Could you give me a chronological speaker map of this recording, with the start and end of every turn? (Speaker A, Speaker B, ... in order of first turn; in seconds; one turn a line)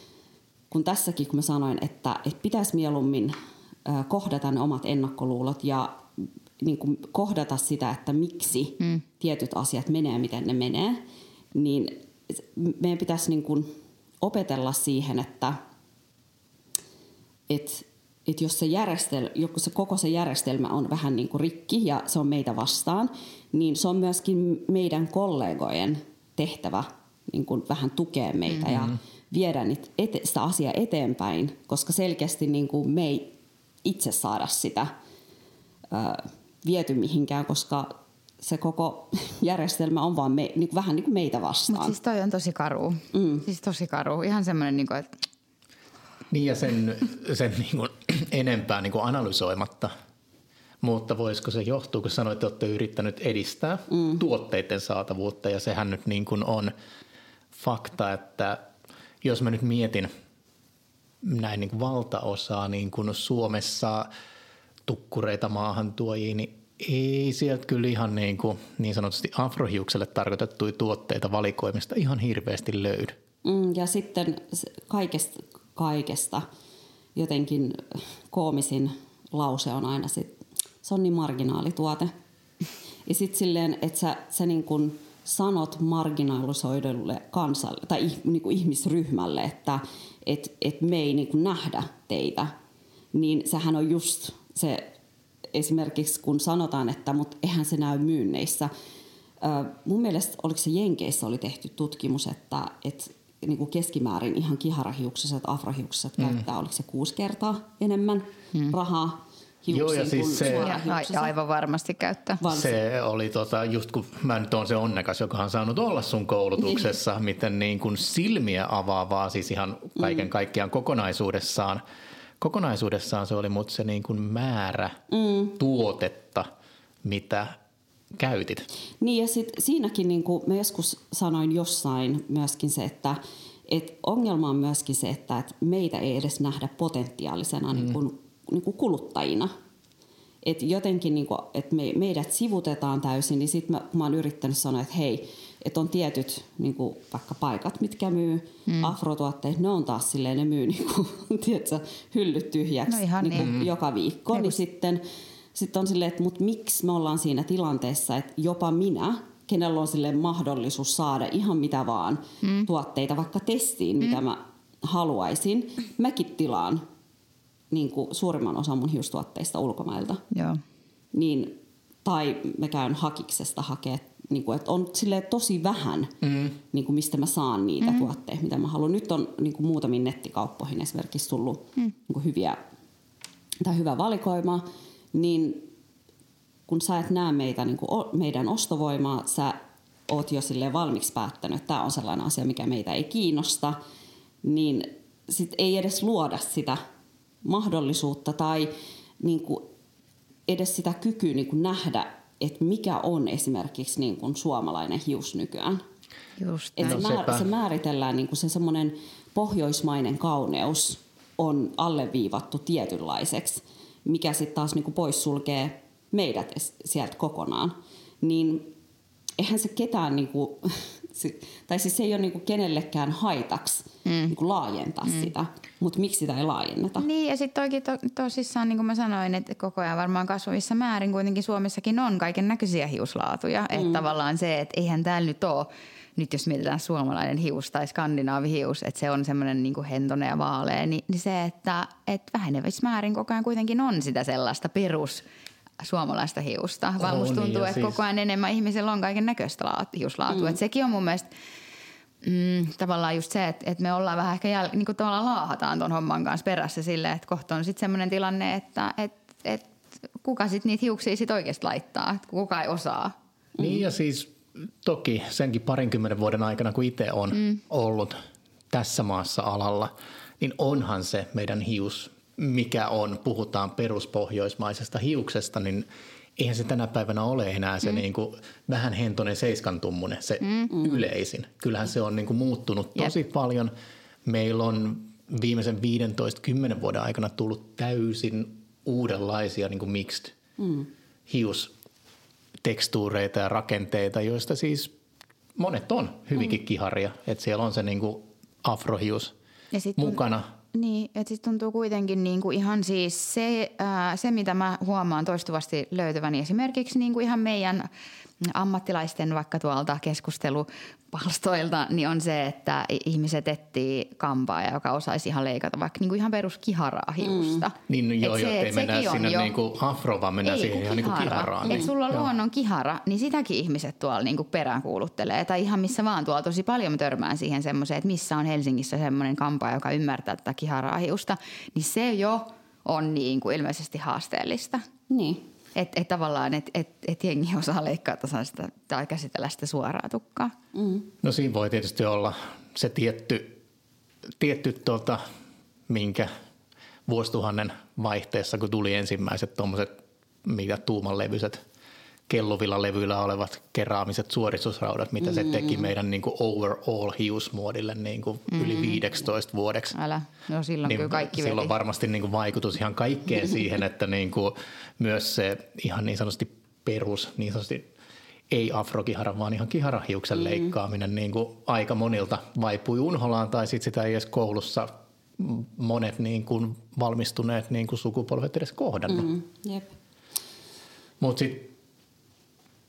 Speaker A: 0.7-11.0
Speaker A: 11.5-15.6
Speaker A: 17.5-33.3
Speaker A: 33.9-34.9
Speaker A: 35.9-42.0
Speaker B: 41.7-45.1
Speaker A: 43.1-43.5
Speaker C: 46.3-49.9
Speaker C: 50.8-56.7
Speaker A: 53.9-54.2
Speaker C: 57.5-58.6
Speaker C: 59.2-60.1
Speaker C: 61.2-64.1
Speaker C: 64.9-73.2
Speaker A: 73.4-76.4
Speaker A: 77.2-82.1
Speaker A: 83.1-92.5
Speaker A: 93.1-94.9
Speaker A: 95.5-98.7
Speaker A: 99.4-111.3
Speaker C: 109.7-110.7
Speaker B: 110.4-112.4
Speaker A: 112.4-112.8
Speaker C: 112.5-121.8
Speaker A: 120.0-120.3
Speaker C: 122.4-125.0
Speaker A: 125.1-125.6
Speaker C: 125.6-126.5
Speaker C: 127.0-127.6
Speaker C: 128.2-128.7
Speaker A: 129.0-139.5
Speaker A: 140.4-155.0
Speaker B: 148.7-148.9
Speaker B: 152.9-153.6
Speaker C: 153.4-153.7
Speaker A: 155.5-166.8
Speaker B: 162.4-162.7
Speaker A: 167.7-170.2
Speaker B: 170.3-170.6
Speaker A: 171.1-182.6
Speaker C: 176.2-176.6
Speaker A: 183.6-185.7
Speaker A: 186.7-193.8
Speaker A: 194.4-196.8
Speaker A: 197.4-199.7
Speaker A: 200.5-205.8
Speaker B: 206.4-207.0
Speaker A: 206.8-218.7
Speaker C: 206.8-207.4
Speaker A: 219.4-227.1
Speaker B: 224.1-224.3
Speaker B: 227.0-245.3
Speaker A: 233.7-234.0
Speaker B: 245.8-251.3
Speaker C: 247.0-248.0
Speaker A: 250.3-250.6
Speaker B: 252.2-263.1
Speaker C: 263.6-268.2
Speaker C: 268.7-283.7
Speaker B: 280.4-280.7
Speaker A: 280.7-281.0
Speaker C: 284.2-290.3
Speaker A: 290.6-290.9
Speaker C: 291.3-291.7
Speaker C: 292.6-294.9
Speaker C: 295.6-299.3
Speaker B: 299.7-300.2
Speaker C: 300.0-300.5
Speaker B: 300.7-307.9
Speaker B: 308.4-319.5
Speaker A: 317.2-317.7
Speaker C: 317.9-322.3
Speaker B: 320.4-334.8
Speaker A: 321.6-321.9
Speaker A: 335.1-335.4
Speaker B: 335.8-340.5
Speaker A: 340.7-341.1
Speaker C: 341.2-343.6
Speaker C: 344.4-345.2
Speaker C: 345.9-346.3
Speaker C: 347.1-349.9
Speaker C: 350.4-351.6
Speaker C: 352.3-359.9
Speaker A: 355.2-355.9
Speaker B: 358.5-359.0
Speaker B: 359.9-361.7
Speaker C: 360.9-367.9
Speaker C: 368.5-379.3
Speaker A: 370.4-370.7
Speaker A: 379.1-380.0
Speaker C: 381.2-381.7